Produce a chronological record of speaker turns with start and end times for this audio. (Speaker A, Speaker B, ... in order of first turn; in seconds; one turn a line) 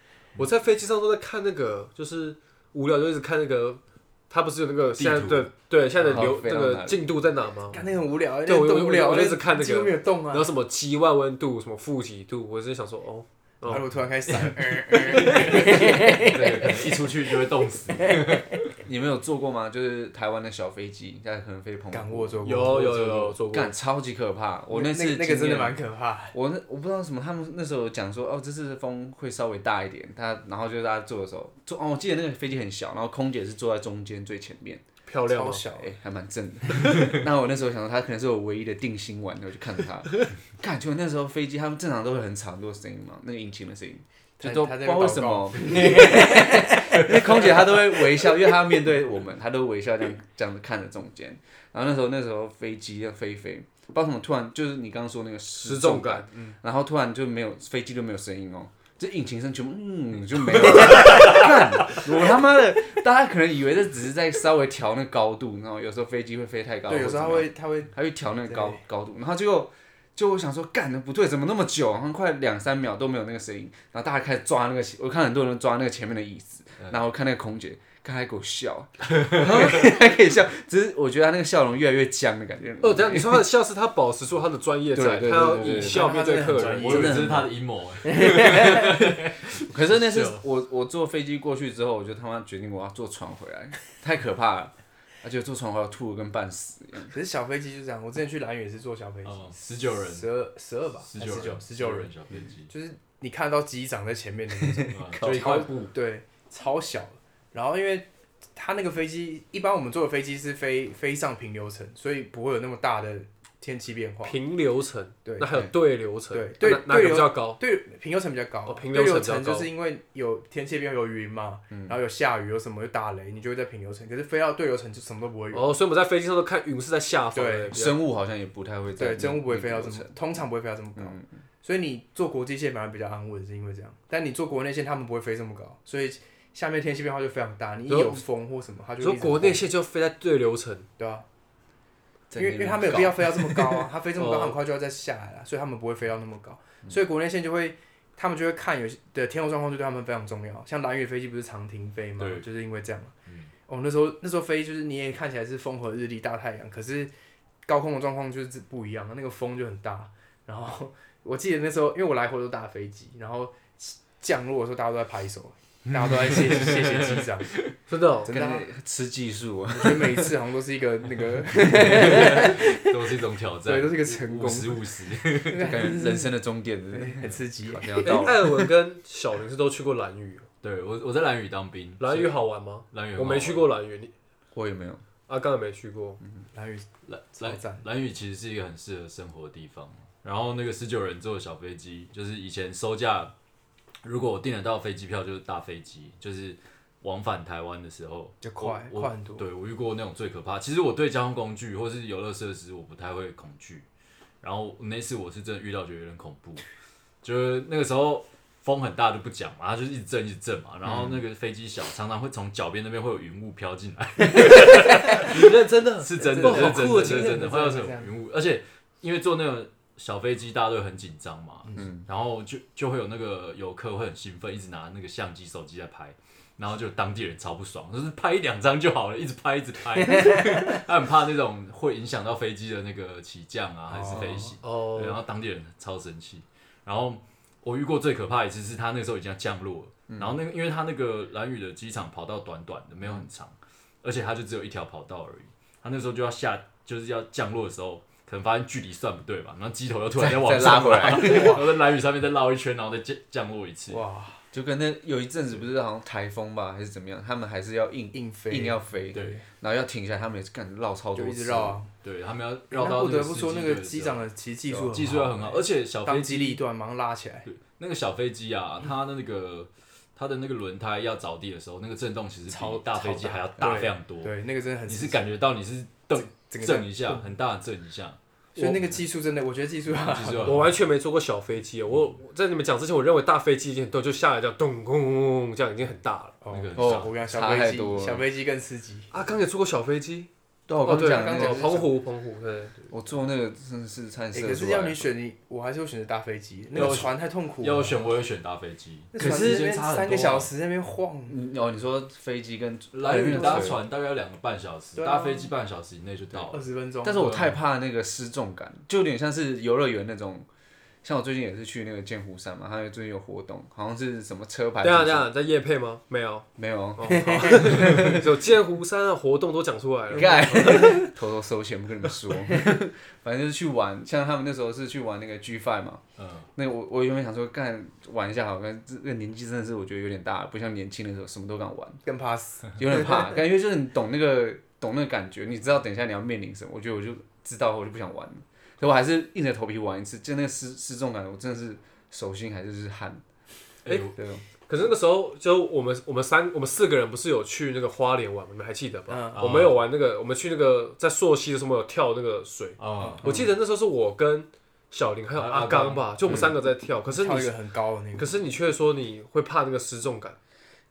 Speaker A: 0.4-7.8
Speaker B: 5.0-5.5
Speaker C: 6.0-7.0
Speaker D: 7.7-10.5
Speaker A: 8.4-13.8
Speaker D: 13.6-16.9
Speaker B: 14.3-18.6
Speaker C: 18.7-22.7
Speaker D: 21.9-23.4
Speaker A: 22.4-23.7
Speaker C: 23.5-25.8
Speaker D: 24.7-26.4
Speaker C: 26.3-34.8
Speaker A: 35.1-35.6
Speaker D: 35.3-35.9
Speaker C: 35.7-83.5
Speaker D: 44.4-48.3
Speaker A: 55.6-56.5
Speaker D: 66.9-67.9
Speaker D: 68.5-68.8
Speaker B: 79.1-79.7
Speaker A: 82.8-87.0
Speaker C: 84.9-86.2
Speaker D: 85.4-87.5
Speaker B: 86.4-89.7
Speaker C: 86.8-87.5
Speaker D: 88.0-89.0
Speaker C: 89.7-97.1
Speaker D: 97.1-102.1
Speaker B: 99.2-100.3
Speaker B: 101.0-102.7
Speaker D: 102.7-114.4
Speaker B: 104.8-105.9
Speaker C: 105.1-105.7
Speaker A: 114.2-117.6
Speaker D: 115.2-115.7
Speaker D: 116.3-125.7
Speaker A: 118.7-119.7
Speaker C: 121.7-122.0
Speaker A: 125.5-128.0
Speaker D: 127.3-127.8
Speaker C: 127.7-130.2
Speaker D: 129.0-139.7
Speaker C: 130.9-131.3
Speaker A: 137.9-138.2
Speaker A: 139.0-140.9
Speaker D: 141.0-141.2
Speaker C: 142.3-143.8
Speaker D: 142.3-153.1
Speaker A: 144.1-144.6
Speaker B: 152.2-152.4
Speaker B: 153.3-153.5
Speaker D: 153.7-157.1
Speaker D: 157.7-167.6
Speaker B: 166.0-167.6
Speaker A: 167.9-168.3
Speaker D: 168.2-168.7
Speaker C: 168.2-170.3
Speaker D: 169.7-173.0
Speaker B: 171.6-175.8
Speaker D: 173.6-176.3
Speaker C: 175.6-178.7
Speaker D: 176.9-178.3
Speaker A: 178.0-180.5
Speaker B: 180.6-182.3
Speaker A: 182.0-184.1
Speaker B: 182.9-183.7
Speaker C: 184.5-185.0
Speaker A: 185.3-186.2
Speaker D: 186.5-187.9
Speaker B: 187.1-193.3
Speaker B: 194.0-203.9
Speaker D: 198.4-199.4
Speaker B: 204.4-206.6
Speaker B: 207.2-254.0
Speaker C: 210.8-211.2
Speaker D: 214.9-215.2
Speaker A: 215.2-217.4
Speaker D: 216.2-218.1
Speaker C: 221.8-222.0
Speaker D: 233.9-234.6
Speaker A: 234.6-235.2
Speaker C: 240.1-240.4
Speaker C: 250.2-251.7
Speaker D: 250.9-251.6
Speaker D: 253.9-254.4
Speaker C: 254.5-261.8
Speaker D: 258.1-259.4
Speaker B: 259.1-259.4
Speaker D: 261.1-261.9
Speaker B: 262.0-266.6
Speaker D: 262.7-267.5
Speaker B: 267.4-278.2
Speaker D: 272.5-275.3
Speaker D: 276.1-277.3
Speaker D: 278.5-280.6
Speaker B: 279.9-280.7
Speaker A: 280.4-286.4
Speaker D: 286.4-289.1
Speaker B: 286.5-287.1
Speaker C: 286.8-288.2
Speaker A: 289.1-290.3
Speaker C: 290.7-291.8
Speaker A: 290.8-292.7
Speaker D: 291.0-291.9
Speaker C: 292.9-295.1
Speaker D: 294.3-298.0
Speaker B: 296.7-300.5
Speaker D: 299.1-301.4
Speaker C: 299.2-299.7
Speaker C: 301.3-303.8
Speaker B: 302.9-307.6
Speaker D: 303.1-303.8
Speaker D: 304.9-305.5
Speaker D: 306.5-307.3
Speaker C: 307.0-310.5
Speaker C: 311.0-315.3
Speaker A: 314.8-321.0
Speaker C: 316.6-318.2
Speaker D: 317.1-318.1
Speaker C: 320.1-326.0
Speaker D: 320.2-321.1
Speaker B: 326.2-326.5
Speaker C: 326.6-332.0
Speaker D: 332.1-333.1
Speaker C: 332.8-343.2
Speaker B: 343.8-344.1
Speaker C: 344.1-344.4
Speaker A: 344.7-357.5
Speaker D: 349.1-349.4
Speaker B: 349.3-349.8
Speaker B: 352.8-353.4
Speaker D: 353.0-353.2
Speaker B: 355.3-356.5
Speaker D: 357.1-358.3
Speaker A: 358.1-360.4